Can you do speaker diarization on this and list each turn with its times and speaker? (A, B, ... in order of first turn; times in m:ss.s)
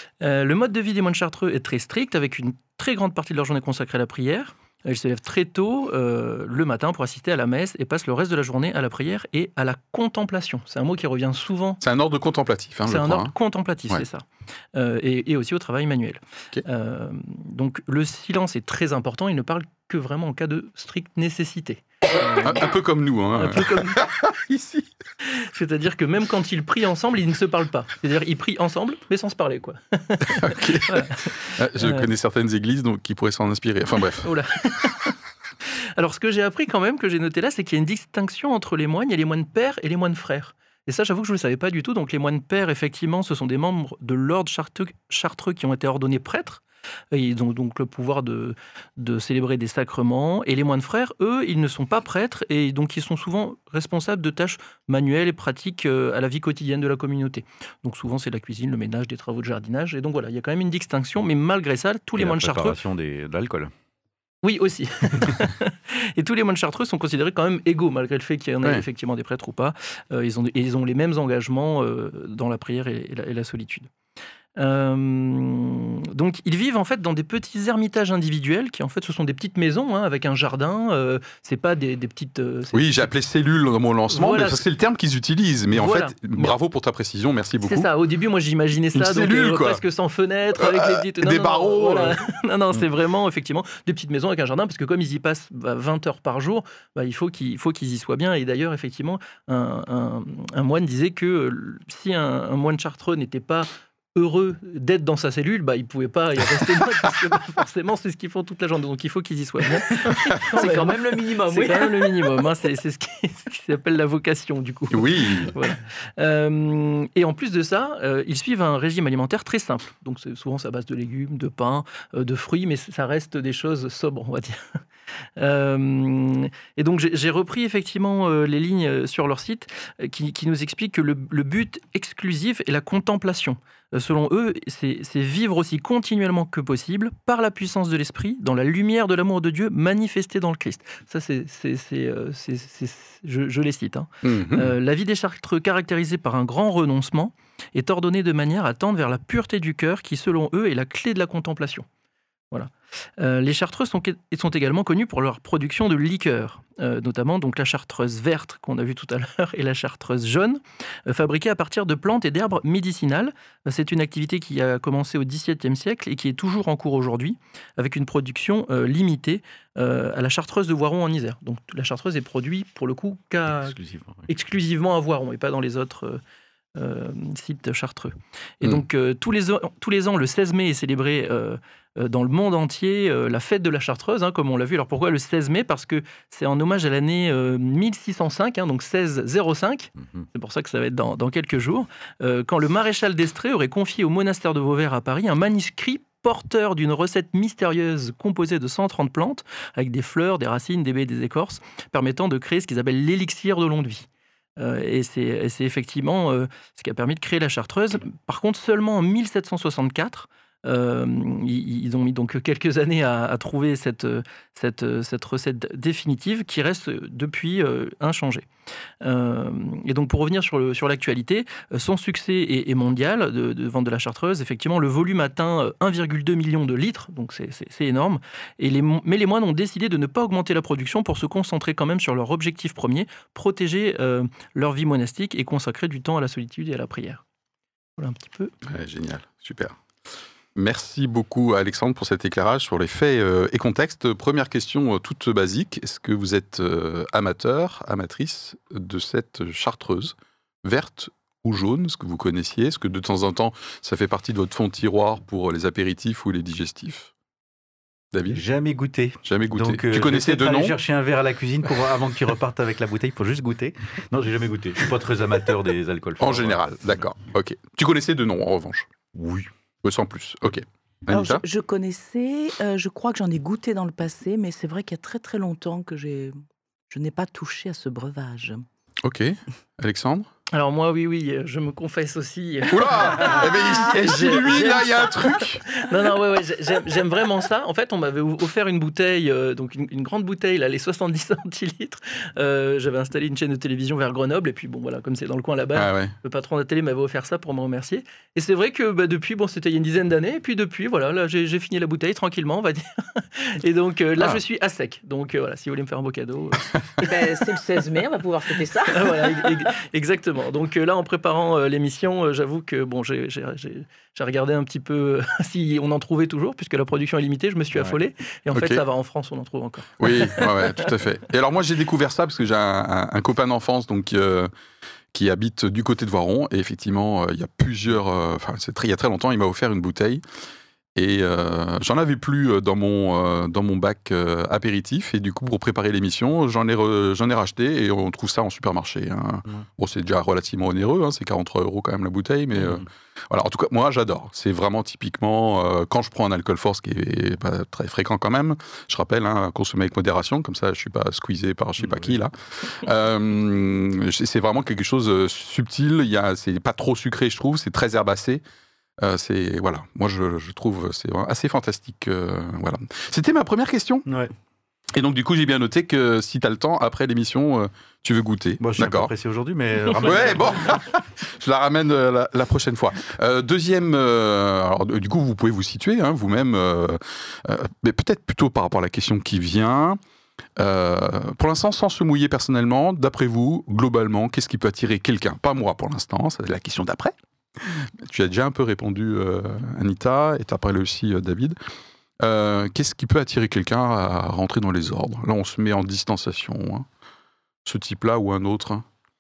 0:00.2-0:11.8 A
0:11.8-0:13.3 B
0:12.9-0:22.7 A
0:22.4-0:24.8 B
0:23.4-0:24.1 A
0:25.2-0:32.1 A
0:30.4-0:34.3 B
0:34.2-1:02.8 A
1:02.2-1:03.7 C
1:04.4-1:13.9 A
1:14.6-1:23.1 A
1:22.7-1:27.9 B
1:24.1-1:24.6 A
1:25.7-1:26.6 A
1:27.6-2:04.8 A
1:28.9-1:29.8 B
1:30.6-1:32.2 B
1:50.1-1:52.3 D
1:50.1-1:50.4 B
1:54.9-1:55.5 B
2:05.4-2:31.9 A
2:24.2-2:24.7 B
2:32.5-2:53.8 A
2:53.6-2:54.3 C
2:54.3-2:56.2 A
2:56.8-3:24.1 A
3:24.6-3:38.5 A
3:39.0-3:57.2 A
3:58.0-3:58.5 A
3:58.6-3:59.8 B
4:00.6-4:17.1 B
4:18.1-4:18.4 B
4:18.3-4:26.6 C
4:19.2-4:20.8 B
4:26.2-4:28.9 B
4:29.1-4:29.5 C
4:29.8-4:31.4 B
4:31.1-4:36.4 D
4:36.9-4:38.6 D
4:39.0-4:40.3 B
4:40.5-5:07.3 A
4:42.7-4:45.7 B
4:43.5-4:45.0 D
4:55.7-4:56.1 B
5:07.0-5:09.5 D
5:08.9-5:20.9 A
5:18.5-5:18.8 B
5:20.0-5:24.5 B
5:25.1-5:30.2 B
5:31.0-5:58.4 B
5:42.6-5:42.9 C
5:51.8-5:52.2 C
5:59.0-6:04.1 B
6:04.1-6:04.3 C
6:04.9-6:09.1 B
6:08.6-6:10.8 C
6:09.9-6:20.0 B
6:20.6-6:31.6 B
6:32.2-6:36.9 B
6:37.6-6:38.9 B